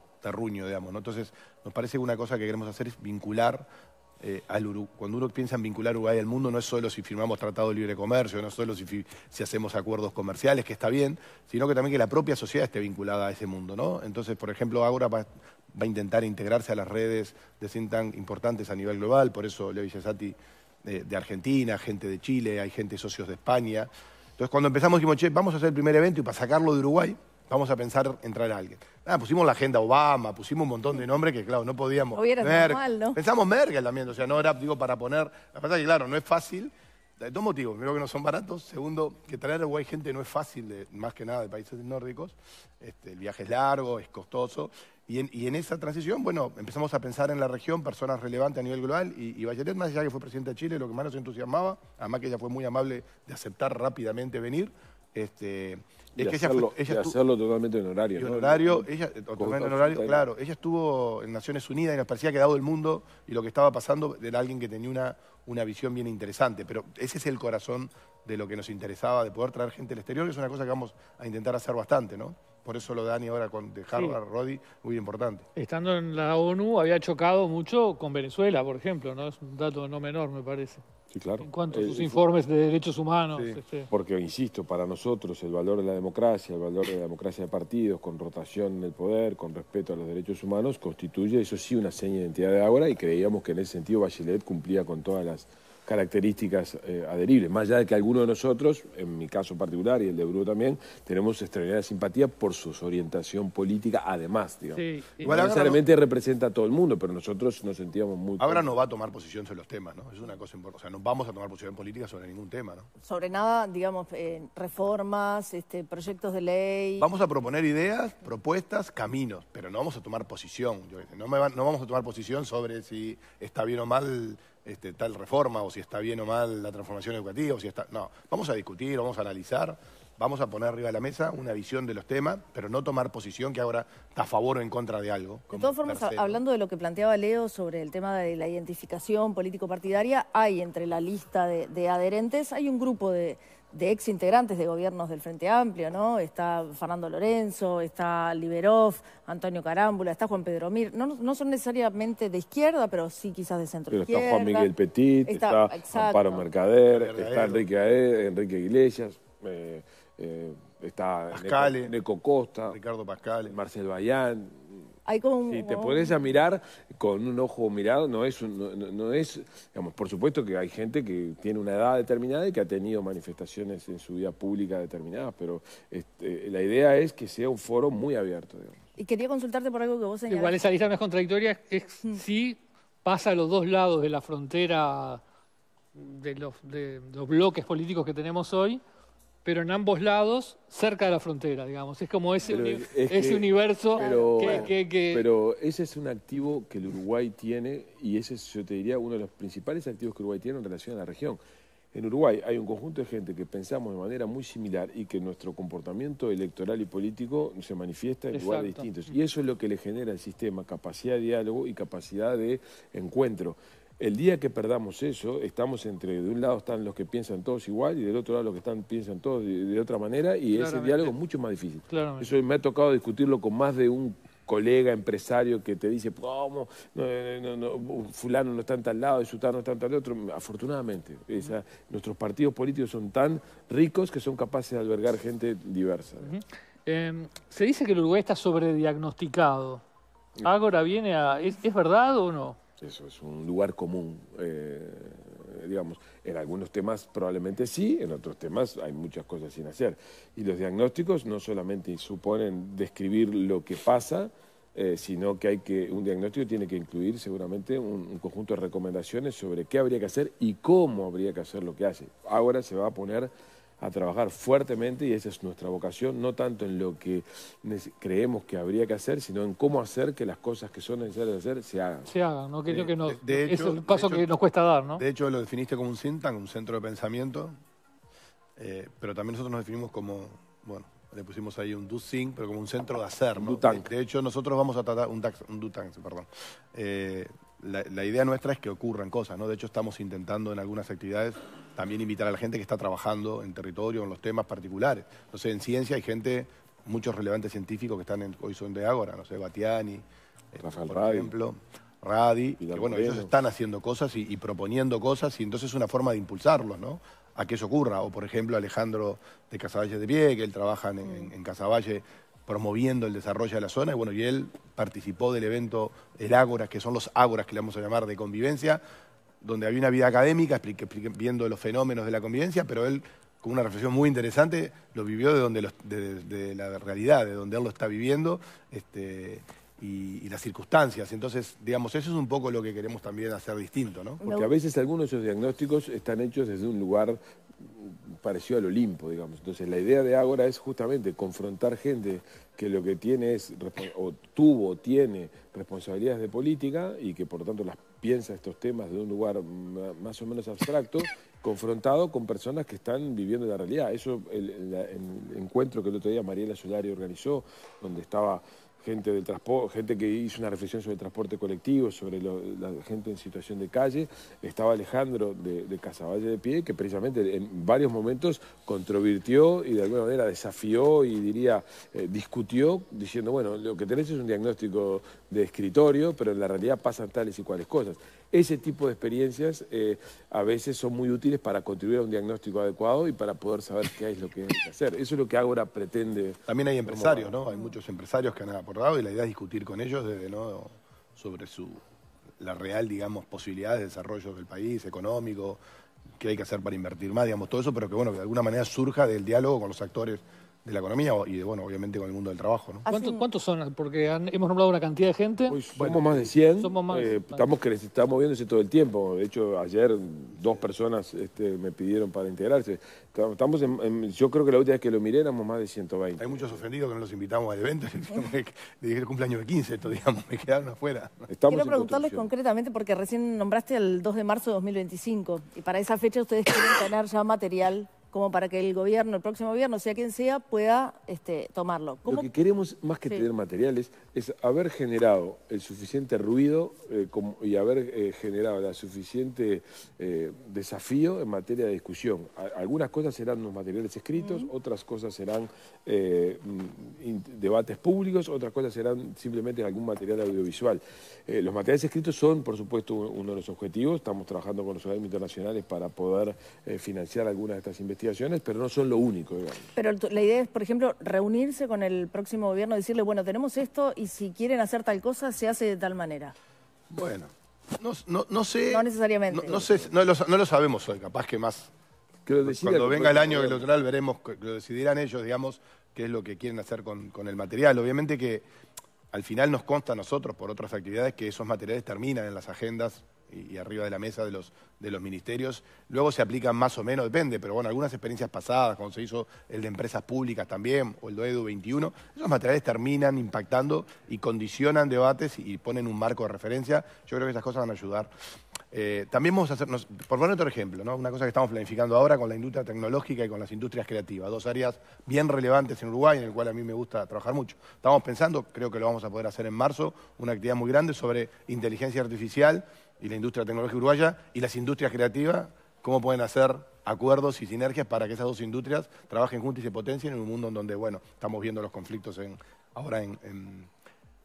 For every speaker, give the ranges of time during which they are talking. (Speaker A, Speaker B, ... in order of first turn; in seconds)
Speaker A: 0.2-3.7, 4.2-57.1, 58.2-75.5, 83.3-83.6, 105.2-105.8, 108.4-112.9, 117.0-136.4, 156.9-157.7, 161.3-161.9, 162.7-163.6, 272.7-274.3, 275.0-277.6, 278.6-318.8, 319.4-334.2, 386.5-391.8, 392.4-395.6, 396.2-402.9, 405.8-406.3, 416.2-421.3, 466.9-471.7, 472.4-478.4, 479.1-498.1, 498.7-523.7
Speaker B: 32.1-33.2, 113.0-117.1, 135.5-154.7, 155.3-156.4, 165.1-166.1, 179.0-180.6, 193.9-194.6, 334.2-334.5, 402.9-403.2, 421.5-432.3, 444.2-444.5, 459.8-466.4, 468.7-469.8
Speaker C: 56.2-60.2, 81.1-82.2, 83.9-108.8, 153.9-162.8, 163.5-164.8, 165.5-178.8, 192.4-201.4, 201.9-236.3, 242.8-272.1, 283.4-283.9, 300.6-301.3, 302.6-303.3, 334.2-387.4, 405.5-416.6, 421.3-422.3, 432.1-459.7, 472.2-473.7
Speaker D: 75.6-80.8, 81.4-83.9, 104.7-105.6, 180.3-185.2, 185.9-188.8, 189.4-195.2, 208.3-209.1, 220.5-221.2, 221.9-222.3, 236.2-239.8, 240.4-242.6, 272.1-275.0, 402.9-405.6, 406.6-407.5